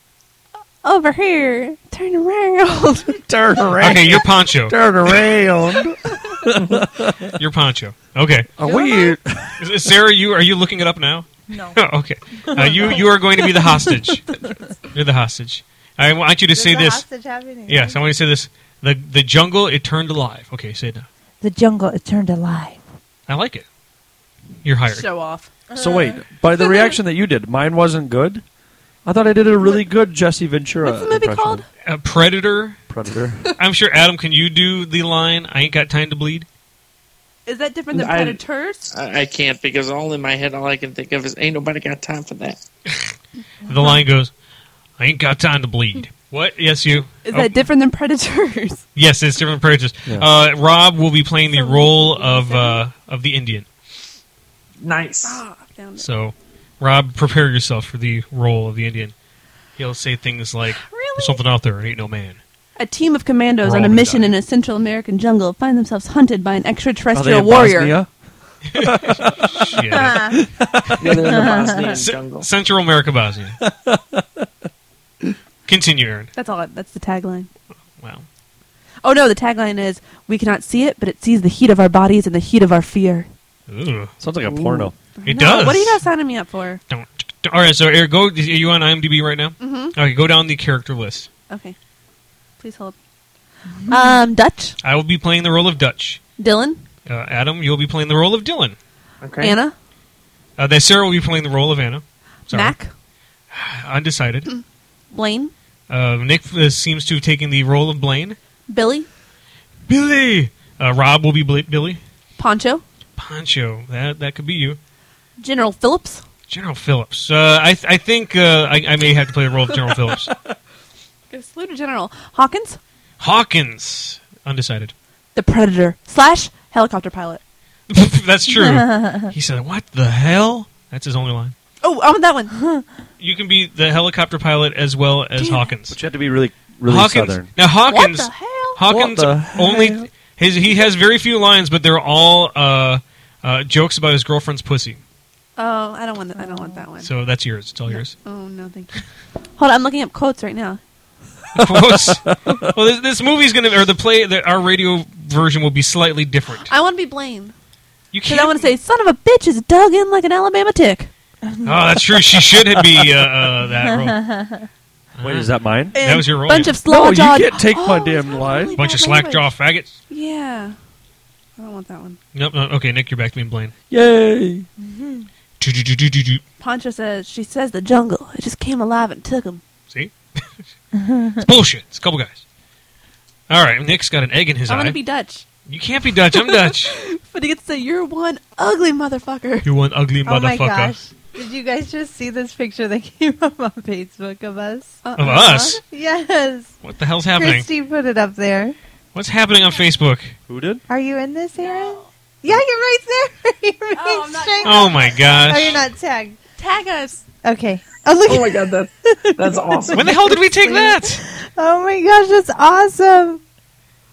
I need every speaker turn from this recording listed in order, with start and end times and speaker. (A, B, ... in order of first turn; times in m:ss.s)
0:00.8-0:03.2 A
0:03.1-0:07.4 B
0:03.8-0:05.3 C
0:06.5-0:06.9 D
0:07.4-0:08.5 C
0:08.6-0:09.9 B
0:08.6-0:09.2 A
0:09.6-0:14.2 C
0:11.5-0:11.8 E
0:12.4-0:13.6 E
0:12.7-0:13.0 A
0:14.9-0:17.0 C
0:16.5-0:18.0 E
0:17.7-0:21.1 C
0:21.4-0:22.8 E
0:23.3-0:23.6 C
0:24.6-0:25.1 C
0:24.9-0:25.5 A
0:25.7-0:26.2 E
0:25.7-0:28.4 B
0:26.6-0:26.9 A
0:29.0-0:31.6 B
0:30.8-0:31.6 A
0:31.8-0:32.8 C
0:32.9-0:33.5 B
0:33.6-0:36.5 C
0:37.4-0:38.9 A
0:37.9-0:38.4 D
0:38.9-0:42.6 D
0:43.6-0:44.3 C
0:45.0-0:47.5 C
0:47.2-0:48.8 A
0:48.9-0:53.7 C
0:51.5-0:52.8 A
0:54.8-0:55.4 D
0:55.2-0:56.0 A
0:56.0-0:59.1 C
0:59.8-1:02.4 C
1:00.8-1:01.4 A
1:02.8-1:08.0 A
1:03.6-1:04.3 C
1:07.1-1:08.1 B
1:08.7-1:10.4 C
1:08.8-1:11.5 B
1:10.0-1:10.3 E
1:11.0-1:12.5 D
1:11.3-1:11.9 E
1:11.9-1:13.6 C
1:13.6-1:14.5 B
1:15.6-1:16.3 C
1:16.4-1:17.5 A
1:18.0-1:18.2 C
1:19.0-1:23.3 A
1:23.7-1:24.1 C
1:24.2-1:24.9 B
1:24.5-1:24.9 D
1:25.2-1:26.8 A
1:25.2-1:26.0 C
1:26.9-1:31.3 C
1:29.6-1:30.0 A
1:31.5-1:31.8 A
1:32.6-1:32.9 A
1:33.8-1:34.8 A
1:34.8-1:36.2 C
1:36.4-1:36.8 A
1:37.0-1:38.8 C
1:39.2-1:39.6 D
1:39.4-1:39.7 A
1:40.6-1:42.8 C
1:42.5-1:42.9 A
1:43.5-1:44.5 C
1:45.1-1:45.5 A
1:45.9-1:48.4 C
1:48.7-1:49.1 A
1:49.9-1:52.0 C
1:52.4-1:52.8 A
1:53.2-1:54.8 C
1:55.4-1:56.2 A
1:56.5-2:00.3 C
2:01.3-2:02.8 A
2:03.2-2:04.9 C
2:05.3-2:07.4 A
2:07.9-2:11.5 C
2:08.6-2:09.2 E
2:11.8-2:12.5 A
2:13.2-2:16.0 C
2:15.4-2:15.7 A
2:15.9-2:17.5 B
2:16.8-2:25.0 C
2:17.9-2:18.8 A
2:18.9-2:20.1 B
2:25.6-2:27.1 A
2:26.4-2:26.8 E
2:27.0-2:28.1 C
2:27.9-2:30.8 A
2:31.5-2:36.7 C
2:31.7-2:32.7 B
2:36.6-2:37.5 A
2:38.1-2:38.7 C
2:38.2-2:41.1 A
2:41.6-2:44.2 C
2:42.4-2:43.2 B
2:44.0-2:44.6 E
2:45.1-2:46.8 C
2:45.2-2:46.0 B
2:45.9-2:49.5 A
2:46.8-2:48.7 B
2:48.8-2:49.9 C
2:50.1-2:50.8 A
2:51.6-2:52.2 A
2:52.3-2:53.7 C
2:53.9-2:54.7 B
2:54.8-2:55.2 E
2:55.6-2:56.4 C
2:56.6-2:59.6 A
2:59.9-3:00.4 C
3:01.4-3:02.4 C
3:03.5-3:05.0 C
3:04.7-3:05.4 A
3:05.7-3:07.0 C
3:06.3-3:09.7 A
3:09.6-3:11.0 C
3:10.2-3:15.0 E
3:15.0-3:15.8 A
3:15.2-3:15.8 C
3:15.8-3:16.8 E
3:16.8-3:17.7 C
3:17.3-3:18.8 E
3:19.1-3:20.4 C
3:20.5-3:20.8 B
3:20.9-3:26.4 E
3:21.6-3:22.1 A
3:23.9-3:25.6 A
3:24.6-3:25.8 C
3:26.6-3:27.2 A
3:27.4-3:33.4 E
3:28.2-3:30.2 D
3:29.9-3:31.2 C